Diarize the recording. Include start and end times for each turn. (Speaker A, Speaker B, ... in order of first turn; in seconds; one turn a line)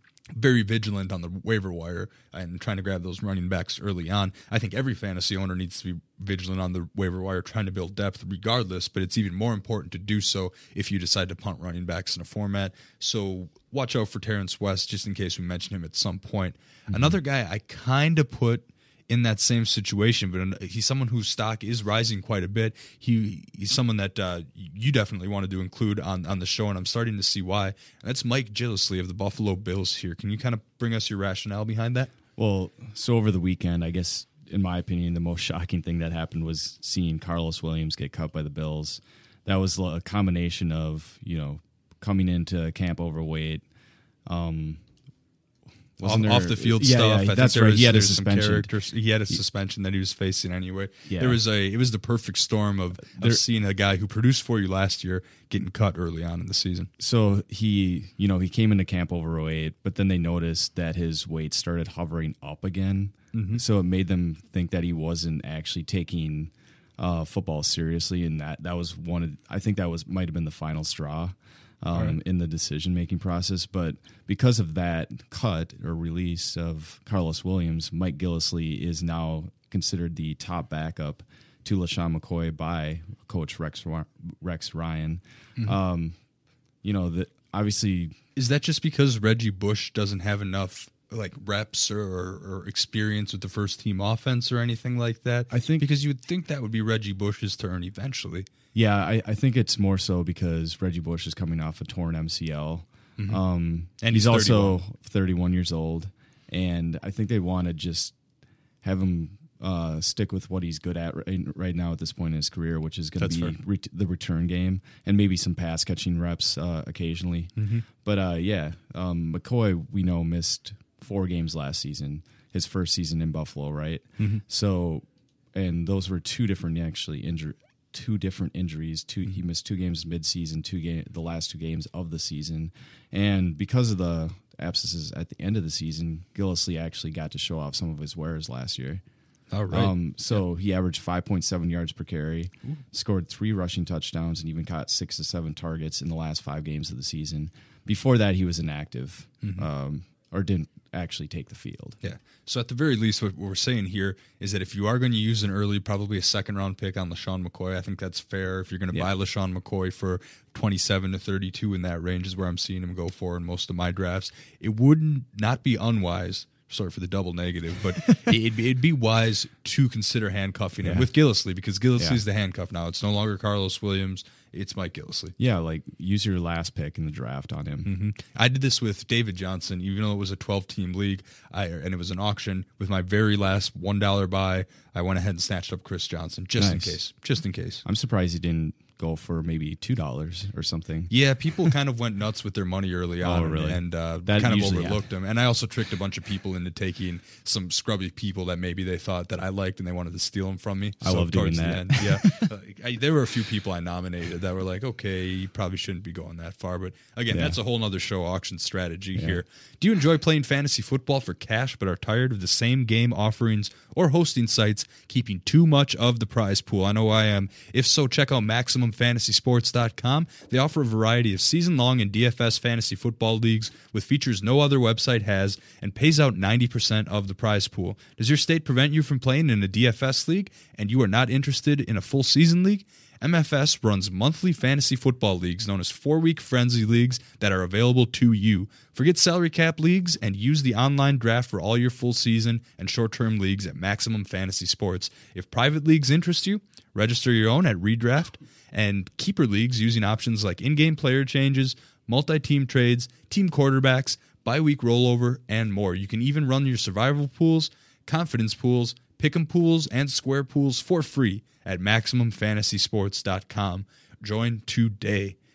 Speaker A: 0.3-32.1
Speaker B: 16.9-17.2
Speaker B: 32.4-43.6
Speaker B: 44.3-44.8
Speaker B: 46.0-48.7
Speaker A: 46.0-56.9
Speaker B: 51.1-51.4
Speaker B: 53.0-53.4
Speaker B: 57.0-86.2
Speaker A: 63.3-63.6
Speaker B: 86.8-88.2
Speaker A: 88.4-98.5
Speaker B: 95.5-95.9
Speaker B: 98.7-108.2
Speaker A: 104.0-104.8
Speaker B: 108.8-139.0
Speaker A: 113.2-113.5
Speaker A: 117.6-117.8
Speaker A: 139.5-139.9
Speaker B: 139.7-152.0
Speaker A: 152.0-175.3
Speaker B: 168.1-168.4
Speaker B: 170.8-171.1
Speaker B: 175.4-177.9
Speaker A: 177.8-187.8
Speaker B: 186.6-187.0
Speaker B: 187.8-191.1
Speaker A: 191.1-265.4
Speaker B: 193.2-195.0
Speaker B: 201.0-202.5
Speaker B: 207.3-207.6
Speaker B: 209.2-209.4